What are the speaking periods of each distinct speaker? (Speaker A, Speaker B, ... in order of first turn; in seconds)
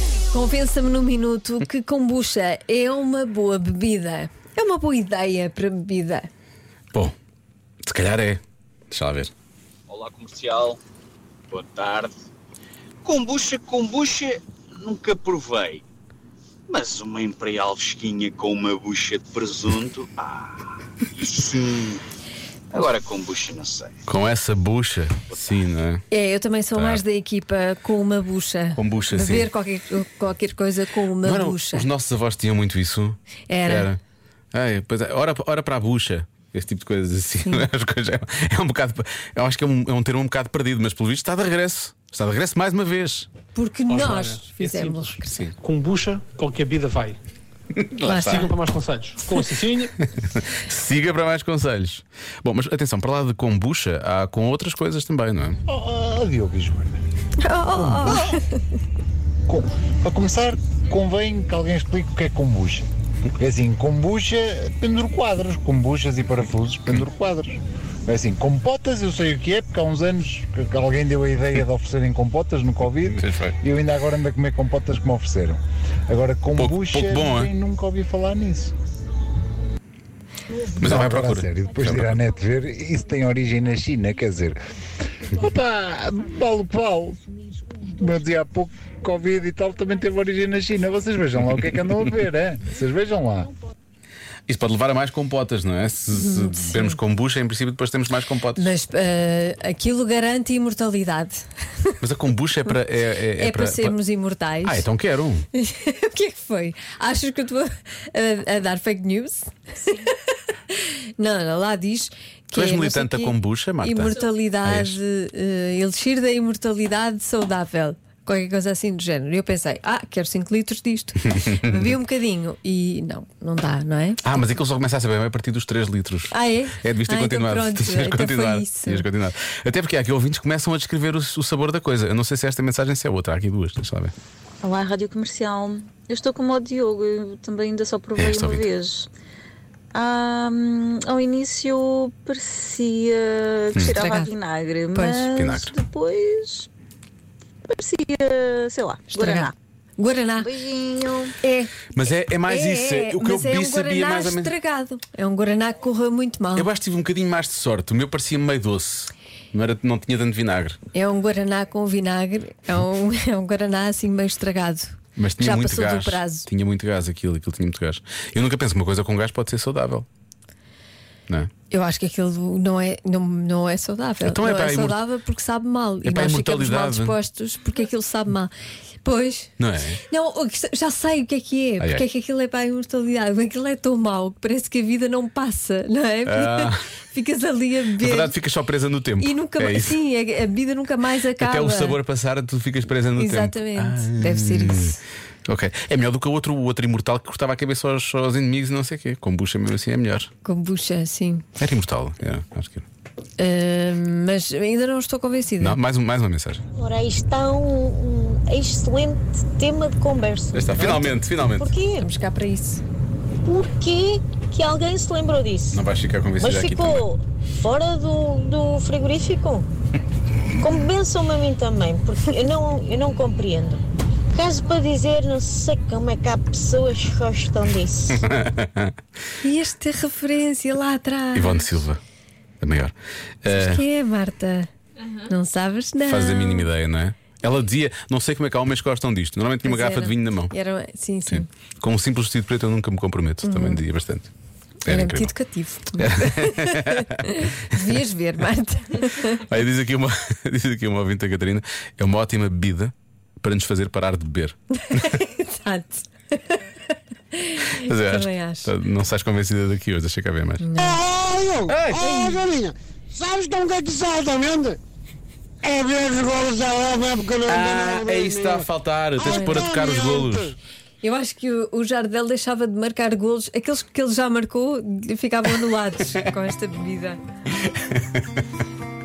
Speaker A: 0.2-6.3, 26.1-31.9, 33.5-33.9, 43.5-45.5, 48.0-48.5, 57.4-58.5, 96.1-97.0, 98.5-102.0, 103.3-104.9, 105.5-110.1, 110.7-124.2, 126.3-129.1, 143.8-144.3, 144.9-145.2, 149.1-150.5, 151.4-156.7, 160.9-166.5, 171.7-178.5, 179.0-179.5, 180.1-188.3, 189.2-192.0, 193.1-195.0, 200.4-201.5, 203.4-205.8, 211.9-212.8, 229.4-231.8, 233.5-234.7, 235.2-236.7, 239.6-241.5, 243.4-243.8, 244.8-249.4, 254.8-258.7, 260.6-261.0, 262.0-262.4, 269.2-270.0, 271.0-277.2
Speaker B: 7.8-9.3, 24.1-26.0, 26.7-27.0, 28.8-29.5, 31.2-34.0, 34.5-43.3, 45.3-45.5, 47.7-48.5, 50.0-55.6, 73.1-73.5, 76.6-77.5, 80.8-82.2, 94.5-98.7, 102.0-104.0, 104.6-105.5, 112.5-115.0, 124.2-134.1, 138.2-138.7, 143.8-144.0, 145.3-145.7, 151.9-154.5, 156.6-160.8, 165.2-170.1, 174.2-175.0, 176.0-177.2, 179.6-180.0, 181.8-182.0, 186.2-186.8, 188.0-190.0, 191.3-200.3, 201.6-202.8, 205.6-206.6, 210.5-211.7, 215.7-217.1, 228.2-228.9, 231.3-232.0, 232.6-233.8, 236.0-240.5, 241.3-244.3, 244.8-245.3, 246.0-247.8, 249.2-255.2, 257.7-260.7, 261.7-262.1, 267.4-270.6, 277.6-278.4
Speaker C: 9.9-10.8, 11.5-12.1, 13.0-15.8, 16.7-20.6, 21.2-22.0, 22.7-23.9
Speaker D: 43.9-45.1, 45.6-47.2, 48.4-49.9
Speaker E: 55.7-57.0, 57.7-58.4, 59.5-62.9, 63.4-78.7, 80.8-84.6, 85.3-87.2, 87.8-93.5
Speaker F: 134.6-139.1, 139.9-146.7, 147.7-149.5, 150.4-151.3
Speaker G: 206.8-212.1, 213.4-215.8, 216.4-219.7, 220.6-228.2
Speaker H: 260.8-264.8, 265.6-270.6